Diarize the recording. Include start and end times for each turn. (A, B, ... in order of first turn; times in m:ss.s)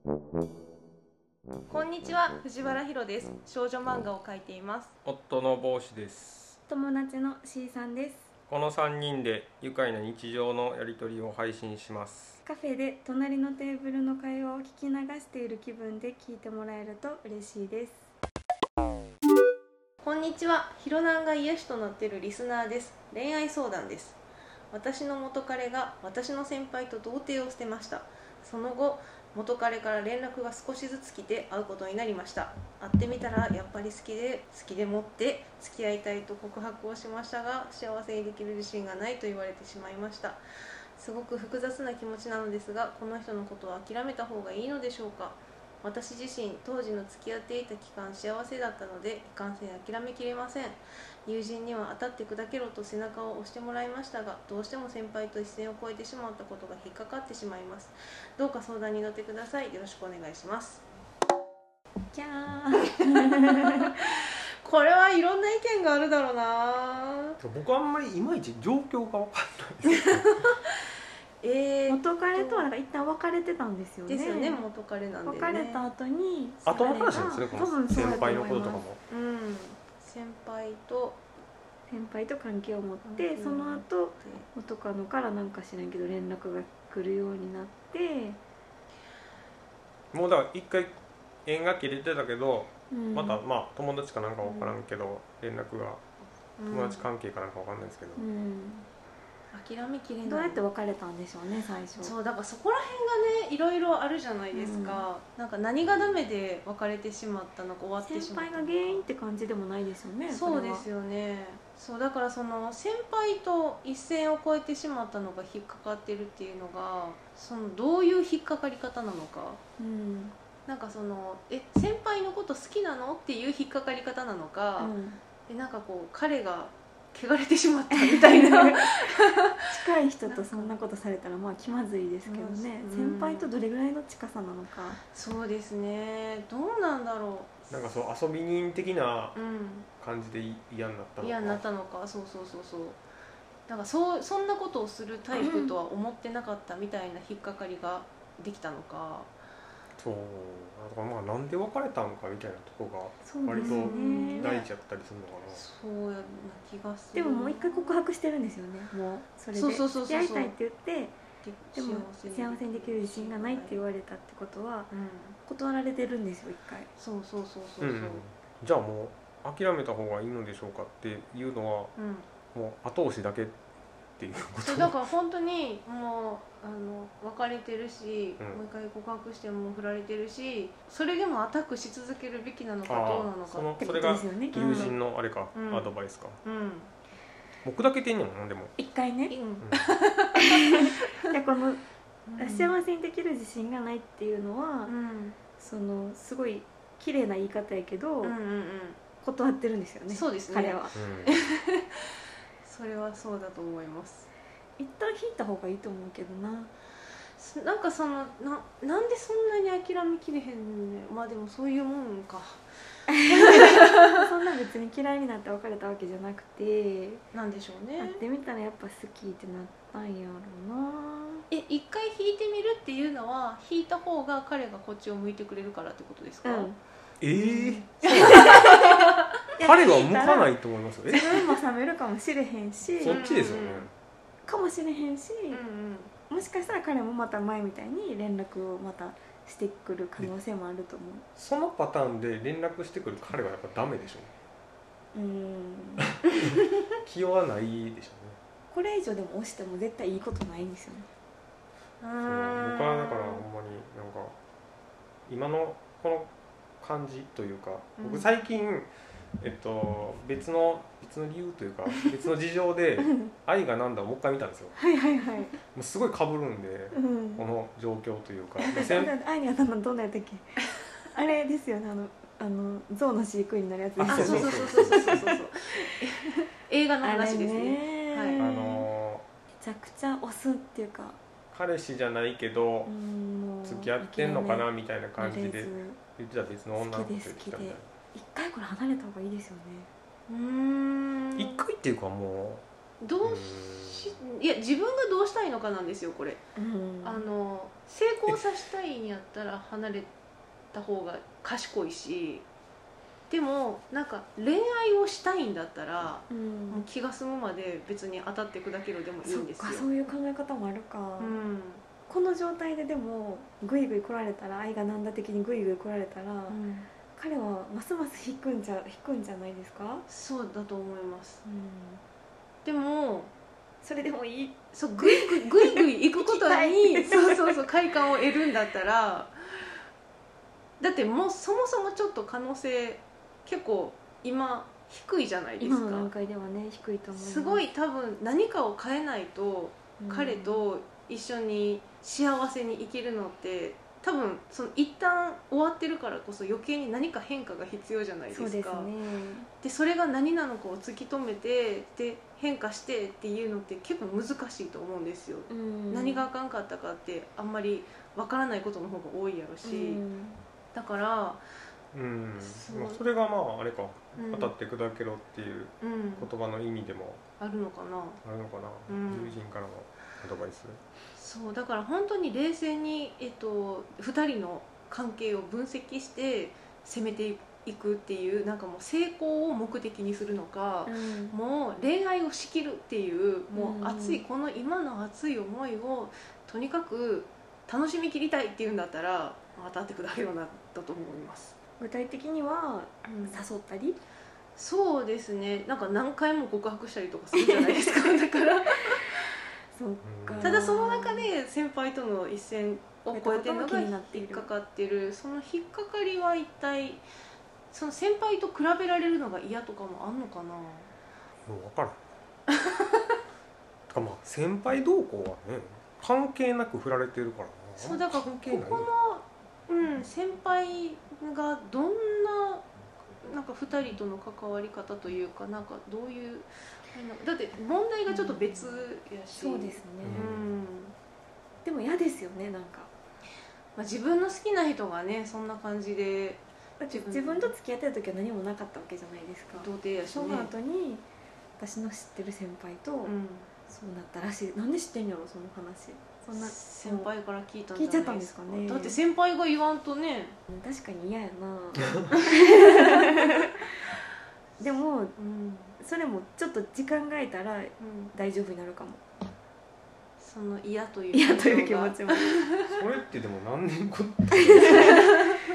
0:01.7-0:04.9 A
0:05.0-0:06.6 B
0:06.7-0:08.3 C
0:08.5-0:12.4 B
0:12.4-0:18.1 C
0:20.0-0:24.2 A
0:24.7-0:40.4 A
0:41.0-1:00.8 A
1:02.1-1:03.9 C
1:03.7-1:04.0 A
1:04.6-1:07.4 A
1:07.4-1:10.5 B
1:09.9-1:10.6 A
1:11.4-1:12.7 A
1:11.9-1:14.6 C
1:14.1-1:15.9 A
1:15.2-1:18.8 C
1:16.7-1:19.0 B
1:17.9-1:18.4 A
1:19.1-1:21.2 A
1:21.9-1:28.4 C
1:23.0-1:24.5 A
1:30.1-1:36.0 B
1:32.9-1:33.4 C
1:34.4-1:34.8 A
1:36.6-1:37.1 A
1:36.7-1:38.2 B
1:38.2-1:38.9 C
1:39.5-1:40.6 A
1:40.2-1:42.1 C
1:42.0-1:49.1 A
1:44.5-1:45.1 C
1:45.8-1:46.2 B
1:48.0-1:50.9 C
1:50.3-1:59.6 A
1:59.8-2:00.3 C
2:00.7-2:04.9 A
2:04.8-2:05.2 C
2:05.5-2:09.6 A
2:07.9-2:15.0 C
2:10.2-2:10.7 A
2:12.2-2:13.5 A
2:15.1-2:17.7 A
2:17.7-2:19.4 B
2:19.3-2:19.9 A
2:20.0-2:21.6 B
2:21.2-2:23.0 A
2:23.7-2:29.3 A
2:25.3-2:25.8 C
2:30.0-2:35.6 B
2:33.2-2:34.6 C
2:33.5-2:34.6 A
2:35.5-2:38.0 A
2:37.1-2:41.2 C
2:39.5-2:40.5 A
2:41.4-2:43.8 A
2:41.8-2:44.9 C
2:44.9-2:45.4 A
2:45.4-2:46.9 C
2:47.0-2:48.2 A
2:47.8-2:51.9 B
2:52.0-2:52.3 A
2:52.5-2:53.6 B
2:54.2-2:55.0 B
2:54.6-3:03.9 A
3:02.8-3:06.4 B
3:03.8-3:04.9 C
3:04.5-3:04.9 A
3:05.5-3:05.9 A
3:06.4-3:06.9 A
3:07.6-3:08.8 B
3:08.8-3:09.3 C
3:09.3-3:11.2 A
3:09.6-3:10.0 B
3:10.4-3:11.8 C
3:12.3-3:12.7 A
3:12.4-3:14.9 C
3:14.8-3:15.4 A
3:15.6-3:18.3 C
3:18.2-3:19.0 A
3:19.2-3:21.0 C
3:20.1-3:22.1 A
3:20.9-3:21.3 B
3:22.6-3:24.3 A
3:24.8-3:26.7 C
3:27.4-3:32.6 A
3:33.1-3:37.2 C
3:33.2-3:34.1 A
3:37.3-3:38.2 A
3:38.0-3:41.4 C
3:41.5-3:46.7 A
3:46.4-3:46.8 C
3:47.2-3:48.9 B
3:47.5-3:50.6 C
3:48.3-3:48.8 A
3:49.6-3:51.5 B
3:51.1-3:53.2 C
3:53.0-3:53.9 B
3:53.1-3:53.9 A
3:54.5-3:55.6 C
3:55.5-3:56.1 A
3:56.3-4:01.2 C
4:01.4-4:04.3 B
4:05.1-4:06.1 C
4:07.0-4:08.4 B
4:08.7-4:11.1 C
4:12.0-4:13.4 A
4:12.2-4:14.4 B
4:15.3-4:24.8 B
4:18.0-4:18.3 A
4:24.8-4:25.5 C
4:25.7-4:29.1 B
4:26.9-4:27.4 C
4:28.6-4:35.2 C
4:34.0-4:35.2 B
4:34.1-4:38.4 A
4:37.0-4:38.9 C
4:38.4-4:39.2 B
4:39.6-4:41.2 C
4:41.5-4:42.9 B
4:42.9-4:46.0 C
4:43.6-4:47.9 B
4:46.8-4:49.9 C
4:50.3-4:51.6 A
4:51.4-4:52.6 B
4:53.0-4:56.4 A
4:53.2-4:54.2 B
4:56.6-4:57.2 C
4:57.0-5:00.1 A
5:00.7-5:02.4 A
5:03.3-5:09.9 A
5:06.3-5:06.8 C
5:09.2-5:11.4 C
5:11.2-5:11.8 A
5:12.1-5:16.6 C
5:16.5-5:16.9 A
5:17.1-5:20.0 C
5:20.1-5:21.4 A
5:21.4-5:22.0 C
5:22.6-5:23.3 A
5:23.8-5:27.7 C
5:24.7-5:29.6 A
5:30.8-5:36.1 A
5:35.6-5:37.6 C
5:37.2-5:48.9 A
5:40.0-5:40.6 C
5:48.3-5:49.5 C
5:49.6-6:00.0 A
5:55.5-5:56.3 C
5:59.6-6:00.4 C
6:00.7-6:01.4 A
6:01.9-6:07.2 B
6:02.4-6:03.0 A
6:04.2-6:04.5 A
6:05.8-6:06.3 A
6:07.4-6:08.2 A
6:08.2-6:10.8 B
6:08.9-6:09.4 A
6:11.1-6:31.6 A
6:20.9-6:21.4 C
6:23.5-6:24.2 C
6:31.8-6:34.0 C
6:33.1-6:33.4 A
6:34.6-6:39.1 A
6:37.4-6:38.1 C
6:38.8-6:39.1 C
6:39.7-6:41.3 C
6:40.0-6:40.7 B
6:40.4-6:47.0 A
6:43.1-6:44.5 C
6:47.7-6:50.9 A
6:51.4-6:52.0 B
6:53.9-6:58.9 B
6:57.8-7:02.6 A
7:03.2-7:10.9 A
7:08.1-7:10.3 C
7:10.0-7:10.4 B
7:11.6-7:12.9 C
7:13.8-7:17.5 A
7:16.8-7:21.0 C
7:19.6-7:20.5 A
7:21.6-7:23.1 C
7:23.0-7:23.5 A
7:23.7-7:27.1 C
7:26.3-7:30.4 A
7:27.8-7:29.0 C
7:30.5-7:33.6 C
7:32.4-7:33.1 A
7:34.6-7:35.1 C
7:35.2-7:35.8 A
7:35.8-7:39.0 C
7:37.8-7:38.1 A
7:40.2-7:42.8 A
7:41.1-7:42.4 C
7:42.6-7:45.0 B
7:44.4-7:45.1 C